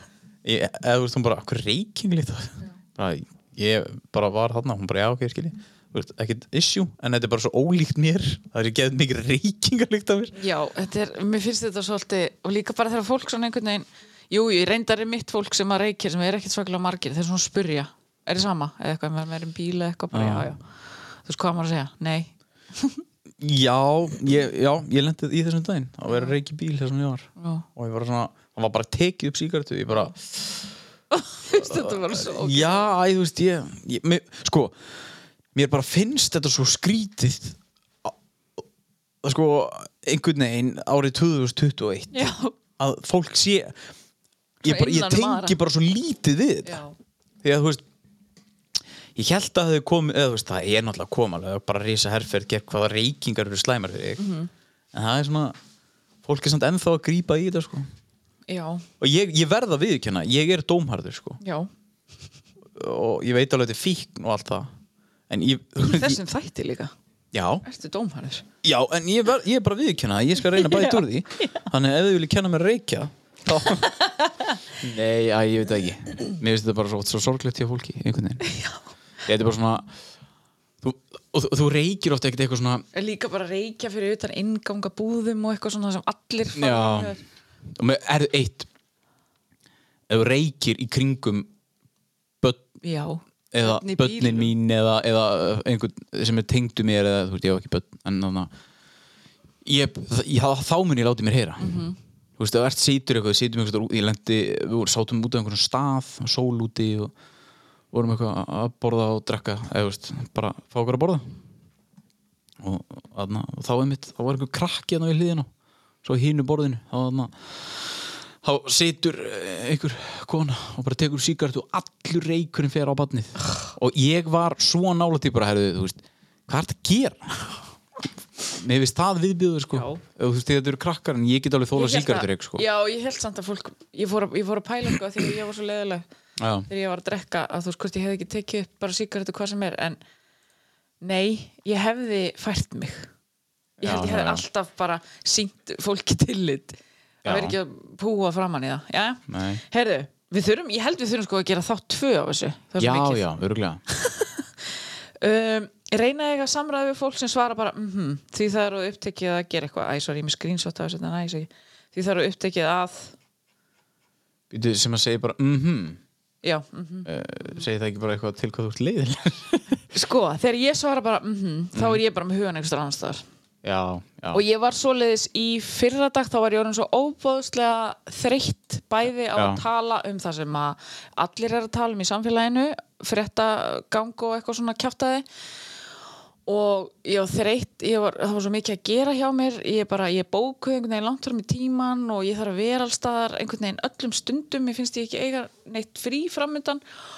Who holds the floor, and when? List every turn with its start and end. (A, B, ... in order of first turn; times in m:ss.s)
0:00.4-0:10.3 A
0:10.3-0:20.7 B
0:20.1-0:20.5 A
0:21.2-0:23.0 B
0:23.4-0:30.4 A
0:27.4-0:27.6 B
0:31.1-0:32.9 B
0:31.5-0:34.8 A
0:35.5-0:38.1 A
0:39.2-0:43.8 A
0:42.1-0:42.6 B
0:44.6-0:46.8 A
0:44.6-0:45.5 B
0:46.6-0:46.9 B
0:47.4-0:47.8 A
0:49.1-0:54.2 A
0:54.2-0:54.5 B
0:54.9-0:55.6 A
0:56.2-0:57.9 A
0:58.5-0:58.8 B
0:59.0-1:01.4 A
1:01.4-1:01.7 B
1:02.7-1:04.7 A
1:05.3-1:06.2 A
1:05.8-1:06.9 B
1:07.3-1:07.6 A
1:07.6-1:08.4 B
1:08.6-1:13.9 A
1:10.5-1:11.6 B
1:13.7-1:14.6 B
1:14.8-1:18.4 A
1:18.4-1:18.8 B
1:19.2-1:19.9 A
1:20.8-1:22.8 A
1:22.9-1:27.2 B
1:26.5-1:27.2 A
1:27.7-1:28.7 A
1:30.1-1:31.5 A
1:32.4-1:32.7 A
1:32.8-1:34.5 B
1:33.5-1:38.5 A
1:39.6-1:41.8 A
1:41.6-1:42.0 B
1:42.4-1:47.1 A
1:47.9-1:51.2 A
1:52.6-1:55.5 A
1:56.0-2:07.3 A
2:08.5-2:12.6 A
2:09.7-2:10.0 B
2:11.7-2:16.0 B
2:16.4-2:16.7 A
2:16.7-2:20.0 B
2:21.0-2:23.1 B
2:23.8-2:33.2 B
2:23.8-2:24.4 A
2:27.2-2:27.6 A
2:29.3-2:29.6 A
2:32.8-2:33.8 A
2:33.9-2:34.5 B
2:35.2-2:43.1 B
2:44.5-2:46.0 A
2:46.4-2:47.6 B
2:47.0-2:49.8 A
2:49.9-2:53.2 B
2:51.7-2:52.0 A
2:53.6-2:54.4 A
2:54.3-3:05.2 B
2:59.3-2:59.6 A
3:06.4-3:16.8 B